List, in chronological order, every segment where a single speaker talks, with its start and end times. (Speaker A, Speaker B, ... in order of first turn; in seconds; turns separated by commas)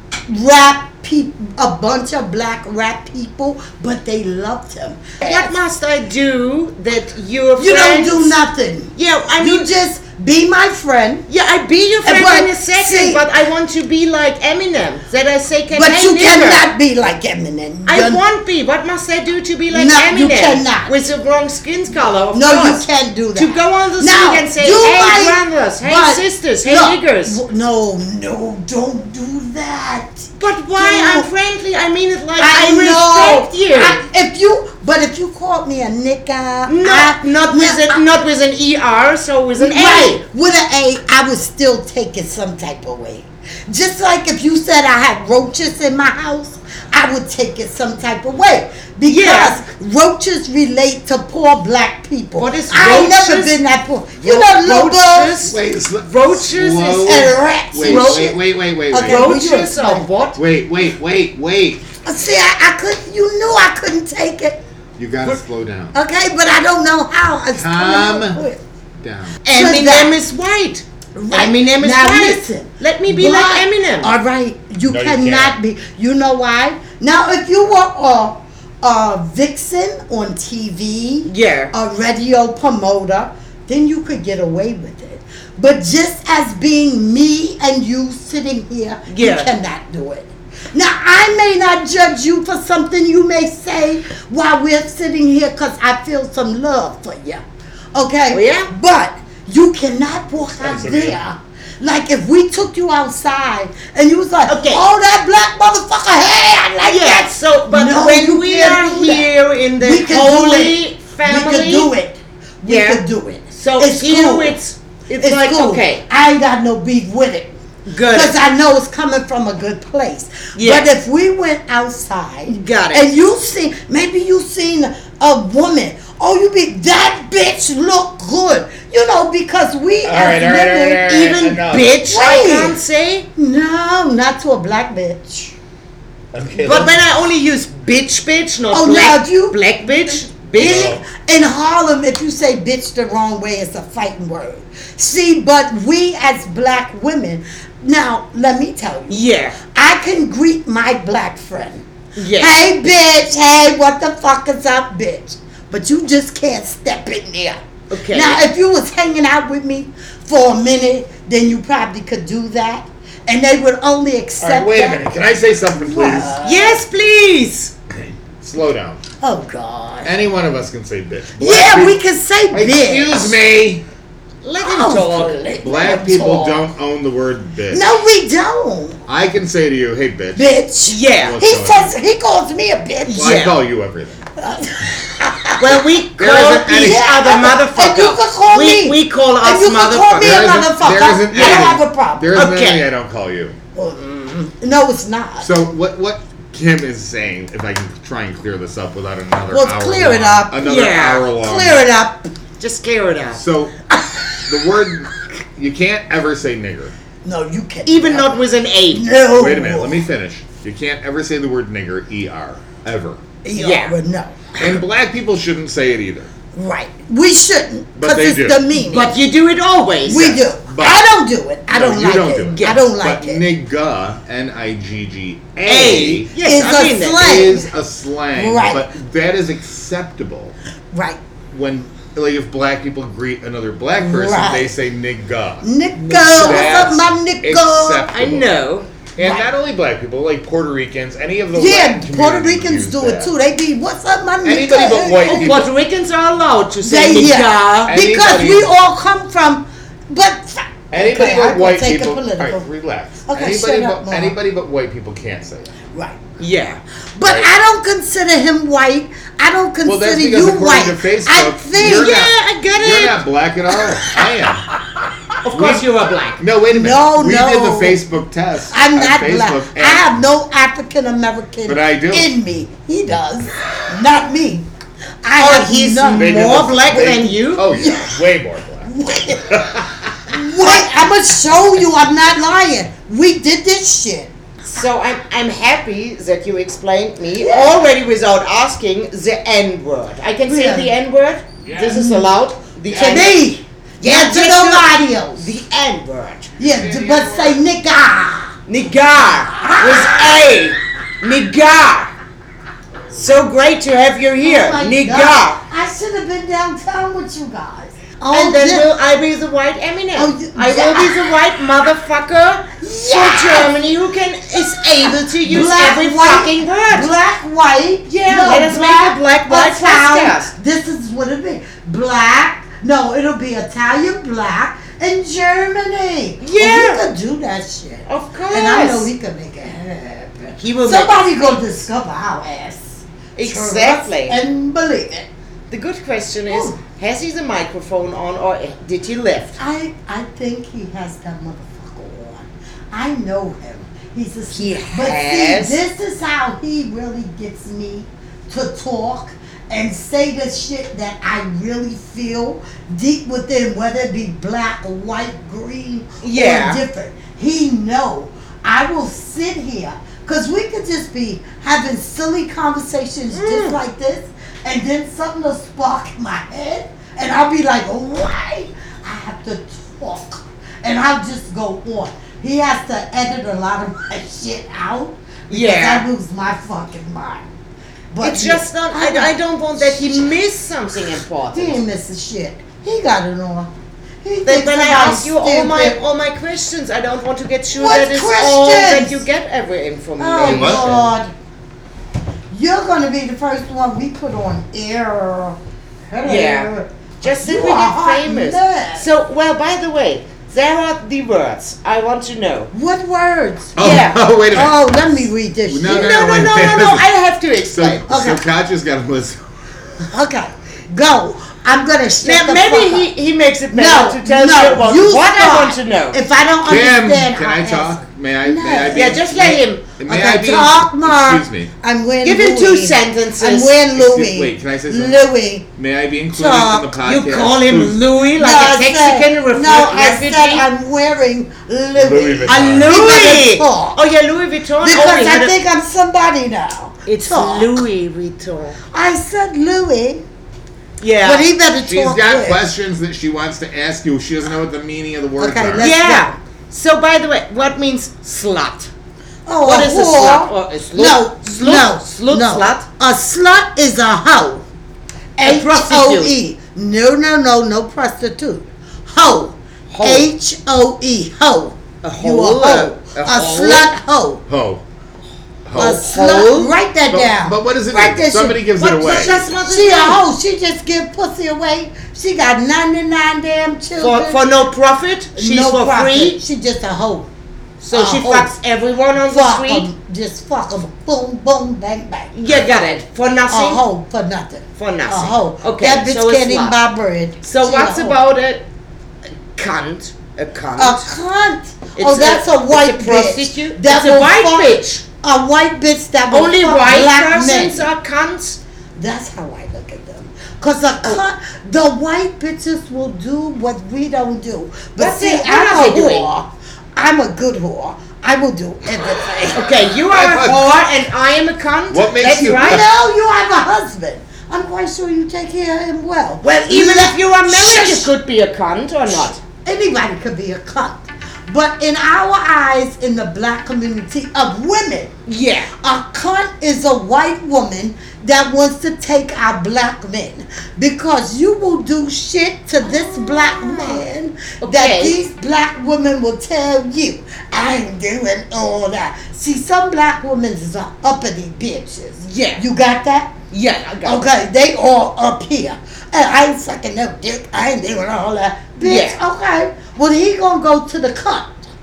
Speaker A: 0.3-5.5, Speaker B: 5.2-8.3, Speaker A: 7.6-11.2, Speaker B: 8.9-9.7, Speaker B: 11.3-16.6, Speaker A: 12.0-13.2, Speaker A: 15.7-18.2, Speaker B: 17.9-22.8, Speaker A: 19.7-20.9, Speaker A: 22.3-31.3, Speaker B: 23.4-27.4, Speaker B: 30.4-34.0, Speaker A: 32.4-38.0, Speaker B: 36.7-40.2, Speaker A: 39.6-55.4, Speaker B: 49.1-49.5, Speaker B: 52.4-53.5, Speaker B: 54.2-55.5, Speaker C: 55.4-59.3, Speaker B: 56.1-57.2, Speaker A: 57.0-60.1, Speaker B: 57.8-58.3, Speaker B: 59.0-60.4, Speaker C: 60.3-61.8, Speaker A: 62.0-64.6, Speaker C: 65.0-65.9, Speaker A: 65.9-68.6, Speaker C: 67.5-68.4, Speaker C: 69.0-69.4, Speaker B: 69.5-74.1, Speaker A: 69.5-70.2, Speaker A: 71.2-97.4, Speaker C: 74.8-75.6, Speaker B: 81.3-81.7, Speaker B: 89.1-89.5, Speaker A: 97.9-114.6, Speaker B: 98.3-98.7, Speaker C: 100.6-101.2, Speaker B: 104.5-104.8, Speaker B: 106.9-111.9, Speaker B: 112.7-113.0, Speaker B: 113.5-116.0, Speaker A: 115.2-117.5, Speaker B: 117.9-118.3, Speaker A: 118.1-131.1, Speaker B: 120.5-120.8, Speaker B: 122.5-123.0, Speaker C: 130.0-132.1, Speaker B: 131.1-133.2, Speaker A: 132.1-132.8, Speaker A: 133.3-135.5, Speaker C: 136.3-137.0, Speaker B: 136.6-140.9, Speaker A: 138.7-139.6, Speaker A: 140.1-151.8, Speaker C: 140.6-141.0, Speaker B: 149.1-149.5, Speaker B: 152.2-152.6, Speaker A: 152.4-166.8, Speaker B: 157.9-158.4, Speaker C: 164.4-166.4, Speaker B: 166.4-167.7, Speaker C: 168.0-169.0, Speaker A: 169.2-170.2, Speaker C: 170.0-172.0, Speaker A: 171.4-173.4, Speaker C: 172.5-173.8, Speaker B: 174.4-175.3, Speaker A: 174.6-176.7, Speaker C: 175.6-177.8, Speaker A: 177.7-179.0, Speaker C: 179.1-180.4, Speaker A: 180.3-183.3, Speaker B: 180.9-181.3, Speaker C: 181.2-181.9, Speaker B: 183.1-183.6, Speaker C: 183.1-184.2, Speaker A: 184.4-185.7, Speaker B: 185.6-190.6, Speaker C: 186.2-187.0, Speaker A: 186.7-192.4, Speaker C: 190.2-193.6, Speaker B: 191.3-191.7, Speaker B: 192.3-192.8, Speaker A: 193.7-195.5, Speaker C: 195.4-201.8, Speaker A: 199.5-200.7, Speaker B: 200.6-201.2, Speaker A: 201.3-202.3, Speaker B: 202.6-203.4, Speaker C: 203.3-203.7, Speaker C: 204.5-206.9, Speaker A: 207.2-208.3, Speaker B: 207.8-209.0, Speaker A: 208.9-210.0, Speaker C: 209.3-213.2, Speaker A: 213.4-214.4, Speaker B: 213.6-213.9, Speaker C: 214.6-216.3, Speaker A: 216.5-219.2, Speaker C: 218.0-218.6, Speaker B: 218.7-220.3, Speaker A: 220.0-223.4, Speaker C: 220.3-221.0, Speaker C: 221.7-226.3, Speaker B: 222.6-222.9, Speaker B: 225.6-227.3, Speaker A: 226.4-227.7, Speaker C: 227.2-230.5, Speaker A: 228.3-228.9, Speaker A: 230.9-231.2, Speaker C: 231.5-235.7, Speaker A: 234.0-234.7, Speaker A: 235.6-238.1, Speaker B: 236.0-236.9, Speaker C: 236.3-238.6, Speaker B: 238.1-238.8, Speaker C: 239.2-243.3, Speaker A: 239.2-239.5, Speaker A: 241.5-245.6, Speaker C: 244.4-245.7, Speaker B: 245.1-248.0, Speaker A: 246.8-252.7, Speaker C: 247.9-248.7, Speaker C: 250.9-255.7, Speaker A: 253.2-254.4, Speaker A: 255.9-256.2, Speaker B: 256.4-256.8, Speaker A: 257.1-262.3, Speaker C: 257.2-257.5, Speaker C: 259.8-264.6, Speaker B: 261.8-263.2, Speaker B: 265.5-266.4, Speaker C: 265.5-265.9, Speaker C: 266.4-270.1, Speaker A: 266.7-268.0, Speaker A: 268.7-274.6, Speaker C: 271.6-272.3, Speaker A: 275.2-278.2, Speaker B: 275.4-277.6, Speaker C: 276.1-278.9, Speaker A: 278.8-279.6, Speaker C: 279.5-280.3, Speaker A: 280.3-284.3, Speaker B: 284.7-293.3, Speaker A: 287.4-287.8, Speaker A: 290.5-290.9, Speaker C: 291.6-292.0, Speaker A: 291.9-292.3, Speaker C: 292.9-293.3, Speaker A: 292.9-295.5, Speaker B: 294.0-296.5, Speaker A: 296.6-298.6, Speaker C: 296.6-297.6, Speaker B: 298.7-302.1, Speaker A: 299.5-300.4, Speaker B: 303.1-305.6, Speaker A: 304.4-308.9, Speaker B: 308.3-317.1, Speaker A: 310.2-311.3, Speaker A: 312.7-313.8, Speaker A: 315.0-335.3, Speaker B: 318.1-320.5, Speaker B: 326.4-327.0, Speaker B: 328.1-329.1, Speaker B: 330.6-331.8, Speaker B: 333.4-334.4, Speaker B: 335.7-339.5, Speaker A: 336.5-336.8, Speaker A: 339.6-377.5, Speaker B: 344.5-345.8, Speaker B: 356.2-356.8, Speaker B: 363.3-363.8, Speaker B: 375.5-376.1, Speaker A: 378.1-380.3, Speaker B: 378.2-381.8, Speaker A: 381.5-383.7, Speaker A: 384.2-386.0, Speaker B: 384.5-390.9, Speaker A: 387.7-389.2, Speaker A: 390.2-391.3, Speaker C: 390.4-391.1, Speaker A: 392.5-395.6, Speaker A: 396.1-399.1, Speaker B: 396.2-396.7, Speaker B: 397.2-402.7, Speaker A: 402.7-406.5, Speaker C: 403.8-404.8, Speaker B: 403.8-404.2, Speaker C: 405.7-407.1, Speaker B: 405.8-408.0, Speaker C: 407.7-409.4, Speaker A: 408.1-408.4, Speaker A: 410.1-413.1, Speaker B: 412.2-416.2, Speaker A: 413.7-419.2, Speaker C: 416.6-421.7, Speaker B: 418.9-420.0, Speaker A: 420.1-425.7, Speaker B: 422.2-423.8, Speaker C: 423.9-425.2, Speaker C: 425.8-428.0, Speaker A: 426.3-427.0, Speaker B: 427.0-430.6, Speaker A: 428.3-434.0, Speaker C: 431.9-433.4, Speaker B: 432.4-435.5, Speaker A: 434.8-437.8, Speaker B: 437.1-438.8, Speaker A: 438.9-440.2, Speaker B: 441.0-441.5, Speaker A: 441.2-442.7, Speaker C: 441.8-445.9, Speaker A: 445.4-446.3, Speaker B: 445.8-448.9, Speaker A: 449.4-454.6, Speaker B: 449.6-452.9, Speaker A: 455.4-464.4, Speaker B: 455.4-456.3, Speaker B: 459.9-460.3, Speaker B: 462.0-463.9, Speaker C: 464.5-464.8, Speaker C: 465.6-466.0, Speaker A: 465.7-474.4, Speaker B: 465.8-466.7, Speaker C: 467.1-469.4, Speaker B: 468.8-470.2, Speaker B: 474.0-476.4, Speaker A: 475.4-477.3, Speaker B: 477.8-479.9, Speaker A: 477.9-478.5, Speaker A: 479.3-482.3, Speaker B: 482.3-483.8, Speaker A: 483.5-488.2, Speaker B: 484.8-486.7, Speaker B: 487.4-488.6, Speaker B: 489.6-491.1, Speaker A: 490.8-497.9, Speaker B: 492.0-495.0, Speaker B: 496.3-498.6, Speaker A: 498.9-509.6, Speaker B: 505.0-506.3, Speaker B: 509.6-512.8, Speaker C: 510.1-510.8, Speaker C: 511.9-512.8, Speaker A: 512.3-518.1, Speaker B: 516.4-519.4, Speaker A: 519.1-525.1, Speaker B: 525.3-525.7, Speaker A: 525.8-543.4, Speaker B: 534.6-535.1, Speaker B: 542.2-542.6, Speaker B: 543.5-544.2, Speaker A: 544.0-551.6, Speaker B: 548.8-549.2